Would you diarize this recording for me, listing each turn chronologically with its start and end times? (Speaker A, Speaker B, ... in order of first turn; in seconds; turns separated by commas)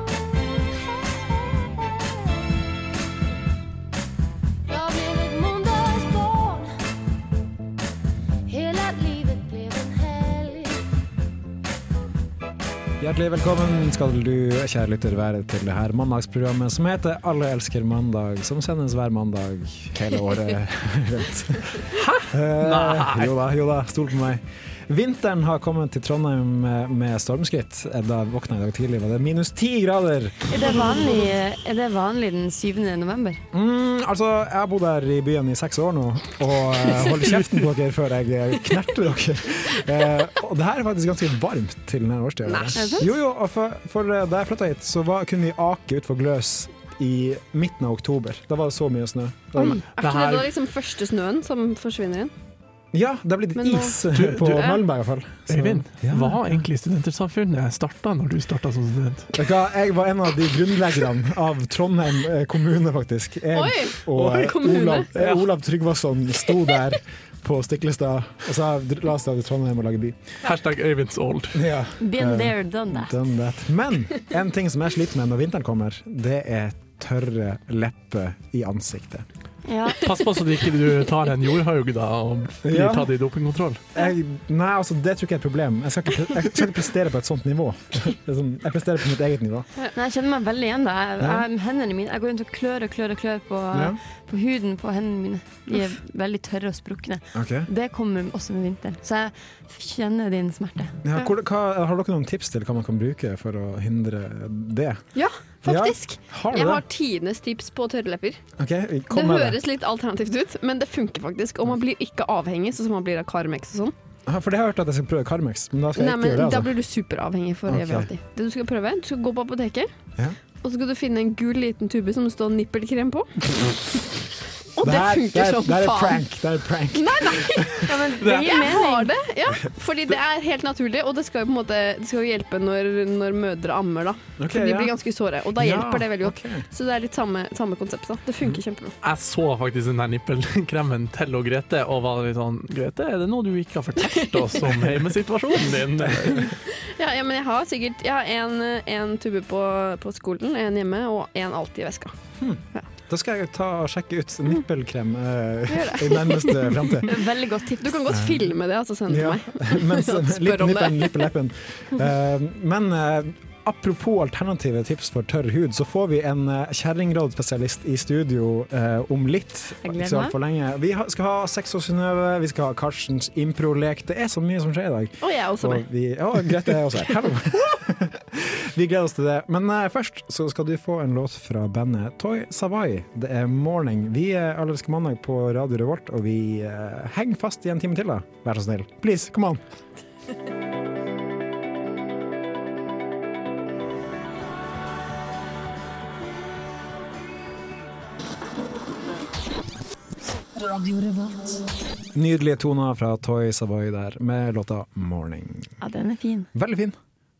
Speaker A: 1.7-2.0, Speaker A: 4.7-6.7, Speaker A: 8.4-10.8, Speaker B: 13.0-30.8, Speaker C: 21.9-23.3, Speaker D: 30.5-33.4, Speaker B: 33.5-49.8, Speaker E: 42.5-42.9, Speaker D: 42.7-43.1, Speaker E: 49.9-52.3, Speaker C: 50.0-50.5, Speaker B: 52.9-56.5, Speaker E: 53.5-54.8, Speaker C: 54.1-54.7, Speaker C: 55.5-59.4, Speaker B: 59.3-70.3, Speaker E: 63.5-65.1, Speaker C: 65.1-65.4, Speaker C: 70.4-71.6, Speaker B: 71.5-79.2, Speaker D: 72.0-73.1, Speaker D: 79.7-80.1, Speaker C: 80.0-83.8, Speaker B: 82.6-83.1, Speaker B: 83.9-89.7, Speaker D: 89.9-101.0, Speaker B: 91.2-91.4, Speaker B: 93.7-94.0, Speaker B: 97.3-97.7, Speaker B: 101.0-105.1, Speaker E: 105.1-108.4, Speaker B: 105.6-106.8, Speaker B: 108.6-109.6, Speaker E: 109.1-113.9, Speaker B: 114.2-116.7, Speaker E: 115.9-119.9, Speaker B: 117.7-118.1, Speaker E: 120.6-123.7, Speaker E: 124.7-126.2, Speaker B: 124.8-127.8, Speaker E: 126.9-138.9, Speaker D: 127.8-129.1, Speaker C: 128.2-128.7, Speaker B: 134.4-134.9, Speaker B: 135.5-136.7, Speaker C: 139.0-146.6, Speaker B: 146.0-146.3, Speaker E: 146.5-152.1, Speaker B: 152.4-157.1, Speaker E: 155.7-157.1, Speaker D: 157.0-158.2, Speaker E: 157.8-161.3, Speaker B: 158.1-158.4, Speaker B: 159.1-189.6, Speaker D: 169.8-170.3, Speaker E: 175.2-175.8, Speaker B: 202.1-205.8, Speaker D: 205.8-206.5, Speaker B: 206.5-206.9